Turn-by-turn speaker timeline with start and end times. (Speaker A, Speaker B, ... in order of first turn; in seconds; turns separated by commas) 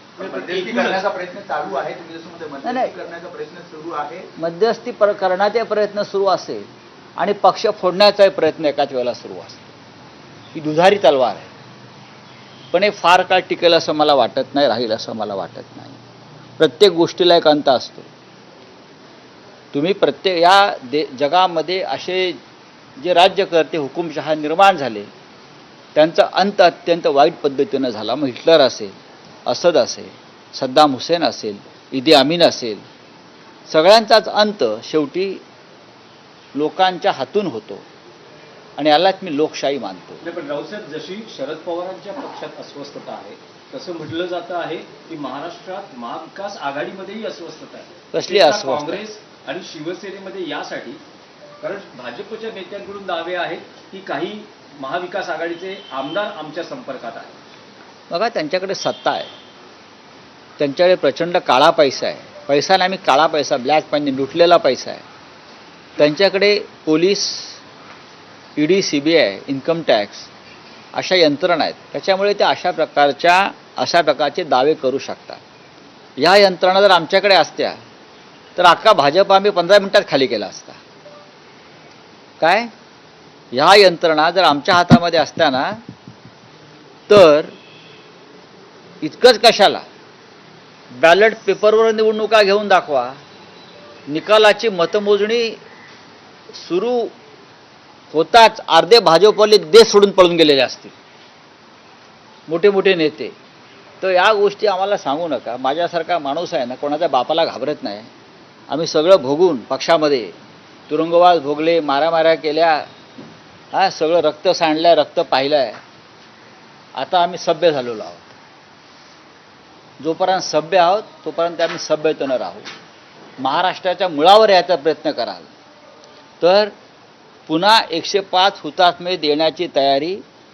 Speaker A: 0.2-1.0, Speaker B: 0.2-4.3, Speaker C: 2.6-3.0, Speaker C: 4.4-9.7, Speaker C: 10.5-11.5, Speaker C: 12.7-16.0, Speaker C: 16.6-18.1, Speaker C: 19.7-22.4, Speaker C: 23.0-25.1, Speaker C: 25.9-29.0, Speaker C: 29.5-32.8, Speaker C: 33.7-35.4, Speaker C: 36.5-37.8, Speaker C: 38.8-40.2, Speaker A: 40.2-51.0, Speaker C: 48.1-49.0, Speaker A: 51.6-57.3, Speaker C: 58.1-59.3, Speaker C: 60.6-65.0, Speaker C: 66.0-67.6, Speaker C: 68.6-70.3, Speaker C: 70.9-75.4, Speaker C: 76.2-77.8, Speaker C: 78.6-80.8, Speaker C: 82.4-82.7, Speaker C: 83.5-85.8, Speaker C: 87.1-87.5, Speaker C: 89.0-89.8, Speaker C: 90.9-93.2, Speaker C: 94.1-95.6, Speaker C: 96.5-97.1, Speaker C: 98.1-100.9, Speaker C: 102.5-103.3, Speaker C: 104.0-108.1, Speaker C: 108.7-110.3, Speaker C: 110.9-112.9, Speaker C: 113.7-115.8, Speaker C: 117.0-118.3, Speaker C: 120.0-122.7, Speaker C: 123.4-125.5, Speaker C: 126.4-126.7, Speaker C: 127.5-130.2